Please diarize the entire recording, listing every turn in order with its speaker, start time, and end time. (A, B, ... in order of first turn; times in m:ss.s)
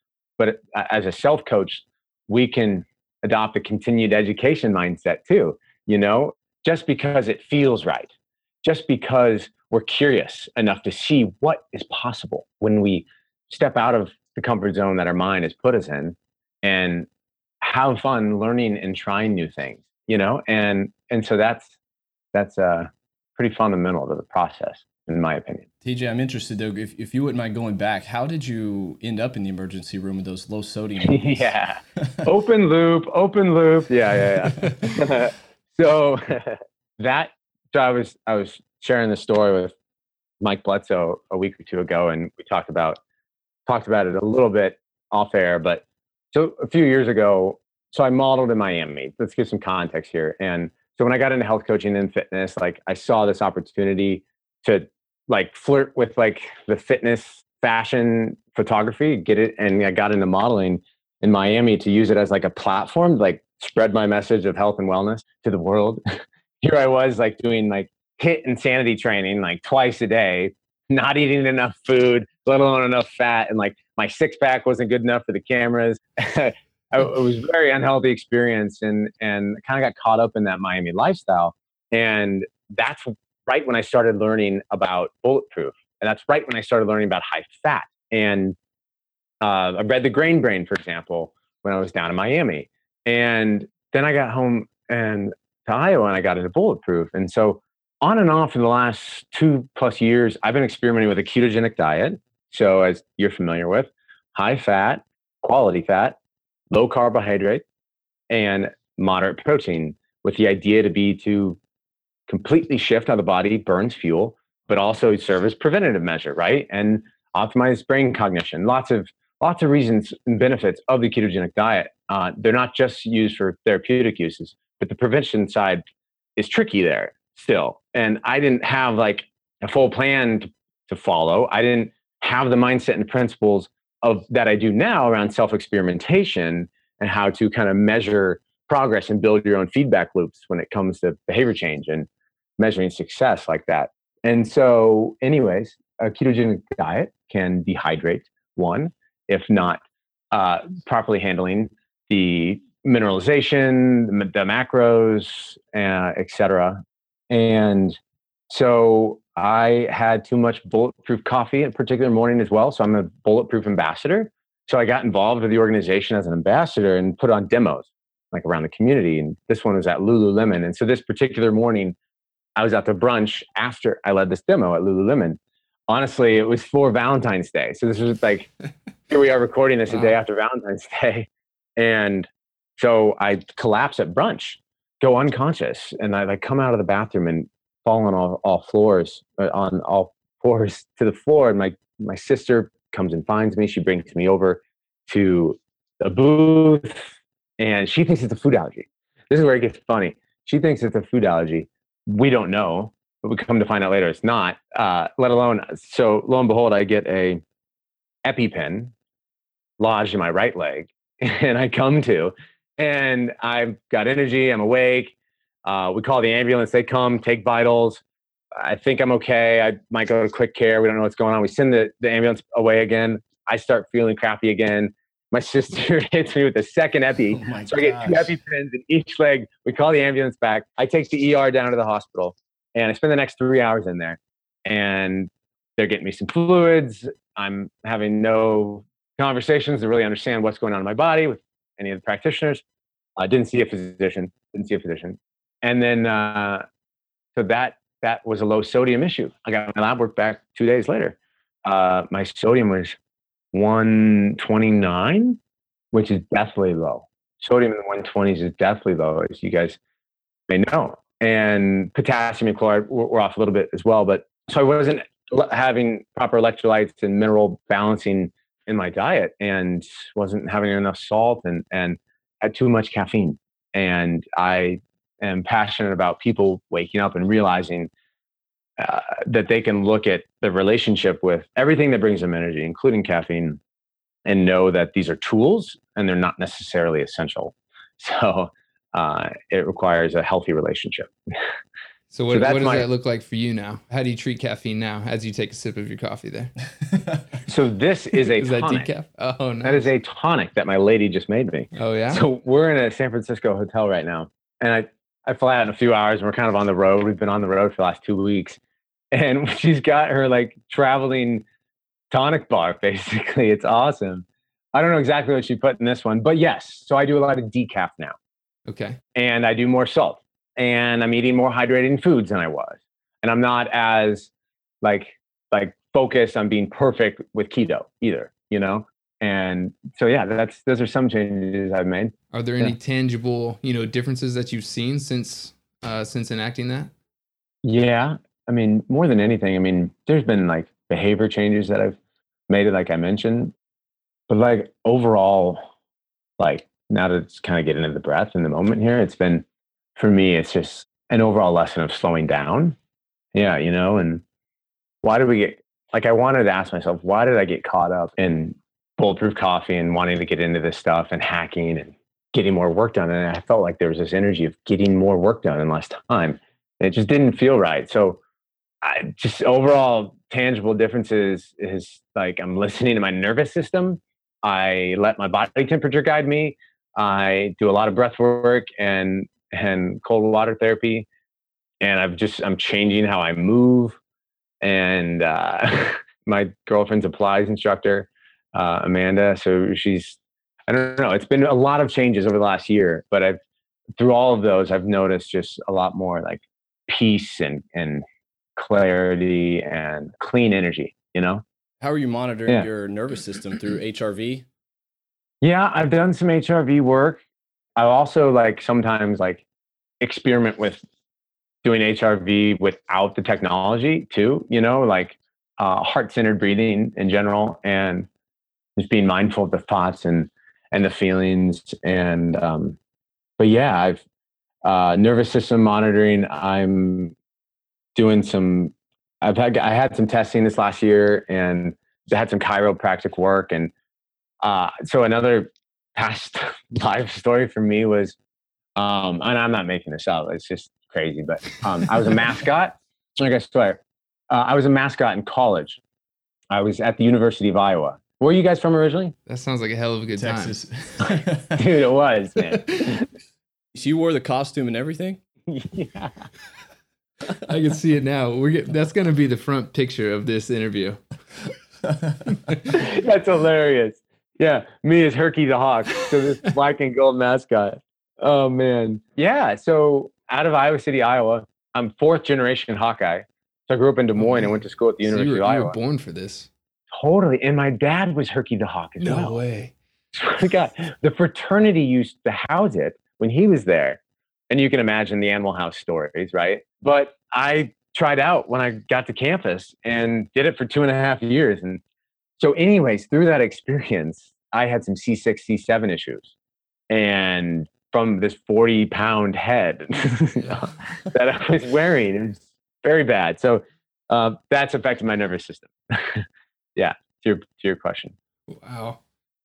0:00.4-0:08.1 A
0:08.6-0:17.1 A
0:17.6-0:21.7 A
0:22.3-0:25.6 A
0:25.8-0:32.2 B
0:31.0-0:39.7 A
0:40.4-0:43.0 A
0:43.6-1:06.0 A
1:06.6-1:28.6 A
1:29.4-1:46.2 A
1:46.7-1:47.6 A
1:48.3-1:51.6 A
1:52.3-2:05.8 A
2:06.4-2:29.8 A
2:30.3-2:38.0 A
2:38.5-2:52.0 A
2:52.6-2:58.5 A
2:59.1-3:27.4 A
2:59.9-3:00.2 C
3:28.2-3:28.9 A
3:29.8-3:35.1 A
3:35.6-3:38.0 A
3:38.6-4:02.6 A
3:47.3-3:48.3 B
4:03.2-4:06.6 A
4:07.3-4:13.0 A
4:13.5-4:15.4 A
4:15.9-4:19.8 A
4:20.5-4:37.9 A
4:38.8-4:43.6 A
4:44.2-4:51.1 A
4:52.1-4:56.5 C
4:52.3-4:52.9 A
4:57.5-4:58.9 A
4:58.3-4:59.9 C
4:59.6-5:08.6 A
5:01.7-5:02.2 C
5:09.1-5:11.4 A
5:12.1-5:18.2 A
5:18.7-5:19.0 C
5:19.1-5:24.3 A
5:24.8-5:32.7 A
5:32.3-5:36.9 C
5:37.6-5:42.0 A
5:42.5-5:43.5 A
5:44.3-5:45.6 A
5:46.4-5:49.4 A
5:50.0-5:52.8 A
5:53.3-5:54.2 A
5:55.0-6:08.2 A
6:08.8-6:21.1 A
6:21.8-6:24.0 A
6:24.6-6:33.4 A
6:34.0-6:38.0 A
6:38.6-6:41.4 A
6:41.8-6:44.4 B
6:45.4-6:47.2 A
6:47.8-6:49.4 A
6:50.0-6:50.8 A
6:51.6-6:58.1 A
6:58.8-7:02.8 A
7:03.4-7:04.0 A
7:04.6-7:07.1 A
7:07.9-7:13.7 A
7:14.4-7:18.2 A
7:18.8-7:25.8 A
7:26.5-7:29.1 A
7:29.2-7:30.6 C
7:30.2-7:31.6 B
7:31.0-7:32.7 A
7:32.6-7:33.0 C
7:33.7-7:35.2 B
7:35.5-7:36.2 A
7:37.4-7:41.0 C
7:41.9-7:42.2 B
7:42.7-7:55.8 A
7:54.2-7:56.5 C
7:56.9-7:59.4 A
7:59.0-7:59.7 C
8:00.1-8:04.0 A
8:04.5-8:11.8 A
8:12.4-8:16.3 A
8:16.9-8:26.2 A
8:26.8-8:28.1 A
8:28.5-8:29.0 C